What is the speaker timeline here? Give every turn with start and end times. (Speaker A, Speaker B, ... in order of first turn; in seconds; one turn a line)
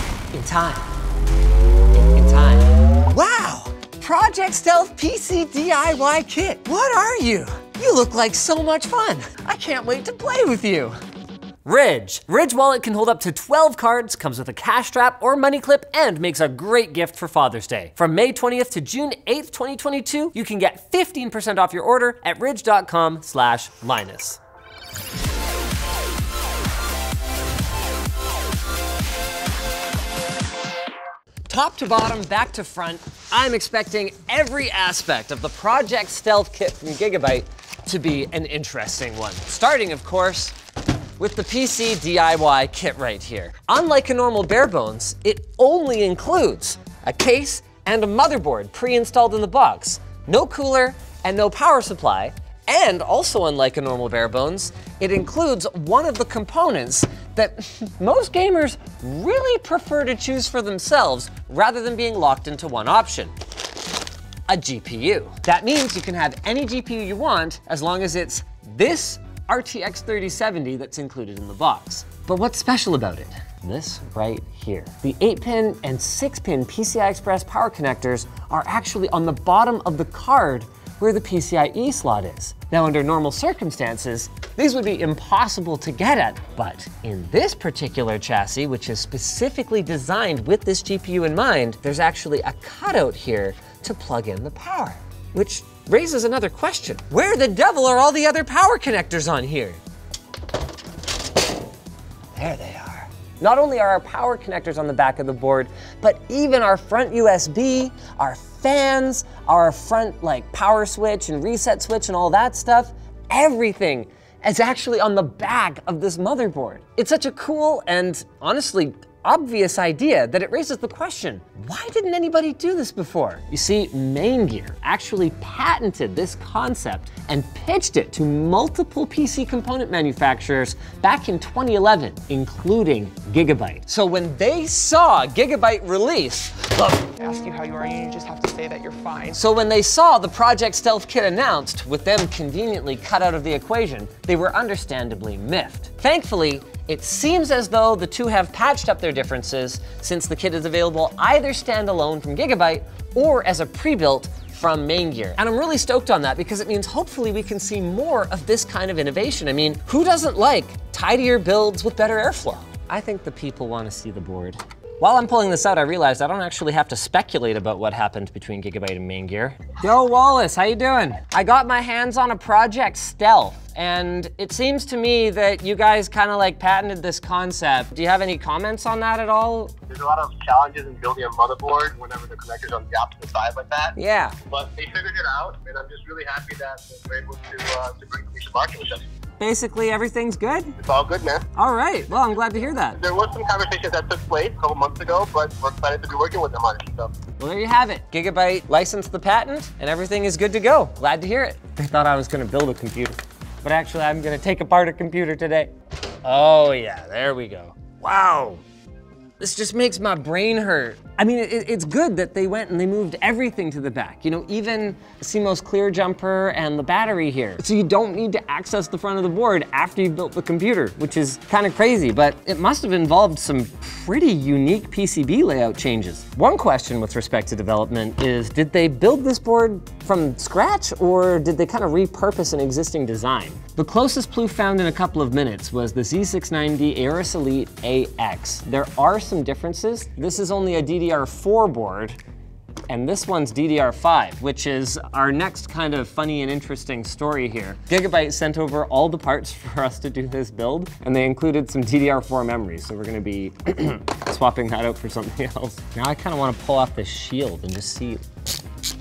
Speaker A: 0.3-0.9
Speaker A: 1.9-11.0
Speaker A: 11.7-24.4
Speaker A: 31.5-40.6
Speaker A: 41.2-63.3
Speaker A: 64.5-99.8
Speaker A: 102.3-137.1
Speaker B: 137.2-139.4
Speaker A: 139.3-179.8
Speaker C: 179.9-183.9
Speaker A: 183.9-184.4
Speaker C: 184.5-189.1
Speaker A: 189.4-190.8
Speaker C: 190.8-191.4
Speaker A: 191.6-193.0
Speaker C: 192.9-197.1
Speaker A: 197.4-205.7
Speaker A: 206.2-208.6
Speaker A: 209.4-242.2
Speaker A: 242.9-258.2